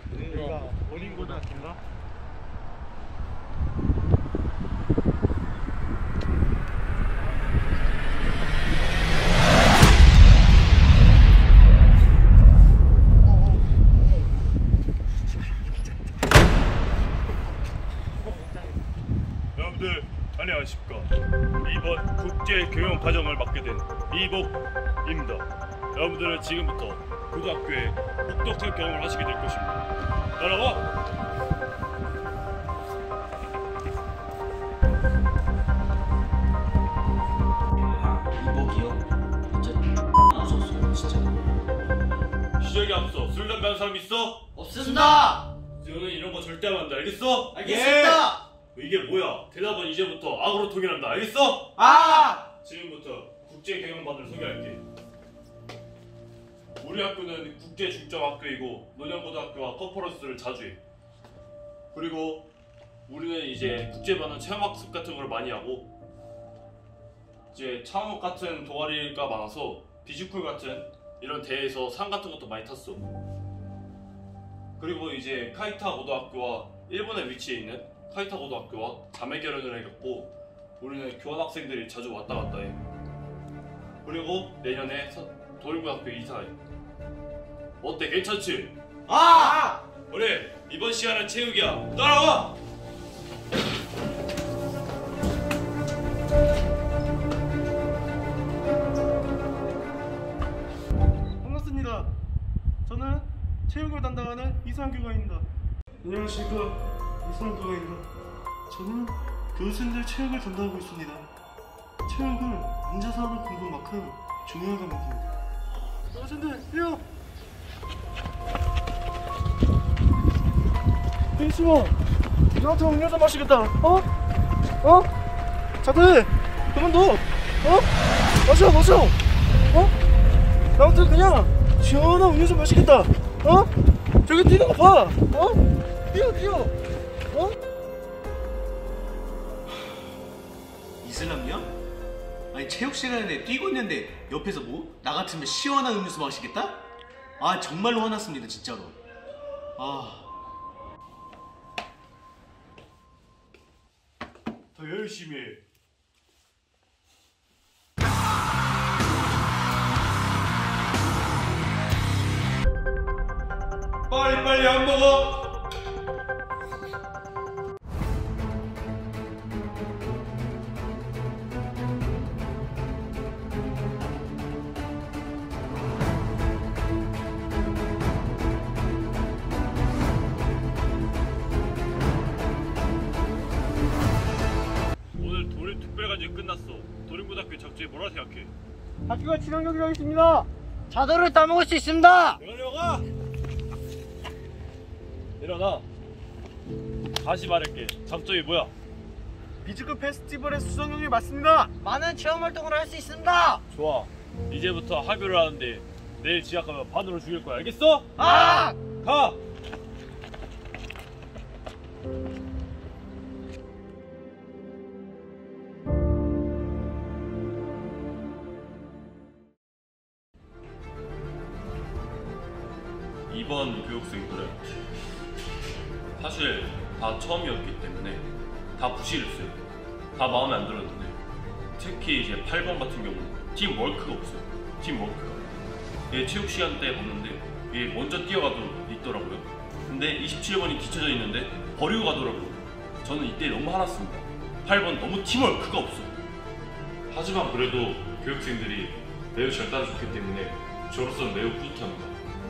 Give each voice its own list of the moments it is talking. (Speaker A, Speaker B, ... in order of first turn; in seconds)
Speaker A: 0.3-1.6, 44.5-45.4, 47.5-48.3, 51.8-52.4, 189.1-192.4, 201.8-203.6, 208.2-208.8
Speaker B: 0.3-1.4, 101.4-102.1, 102.8-105.5, 106.0-108.1, 108.7-111.3, 112.0-115.3, 116.1-117.0, 121.3-122.0, 122.5-124.1, 124.8-125.1, 125.8-127.9, 128.4-129.2, 130.8-133.7, 134.2-136.7, 137.3-137.6, 199.6-201.7
Speaker C: 19.6-29.8, 30.4-30.9, 42.6-44.5, 45.8-48.0, 48.7-51.9, 52.6-54.8, 56.8-60.8, 61.9-62.5, 63.1-65.9, 67.5-73.1, 74.8-82.8, 84.0-86.5, 87.8-88.7, 89.2-92.5, 154.7-155.6, 164.1-165.4, 185.2-188.5, 192.4-193.1, 195.4-195.8, 197.2-198.7, 203.7-209.4, 223.3-224.7, 226.2-229.6, 230.1-231.2, 231.8-235.5, 236.1-246.2, 247.1-252.2
Speaker D: 38.4-38.8, 40.4-41.0, 47.6-48.3, 89.1-89.6, 141.0-141.7, 142.5-146.8, 147.4-149.0, 149.8-150.3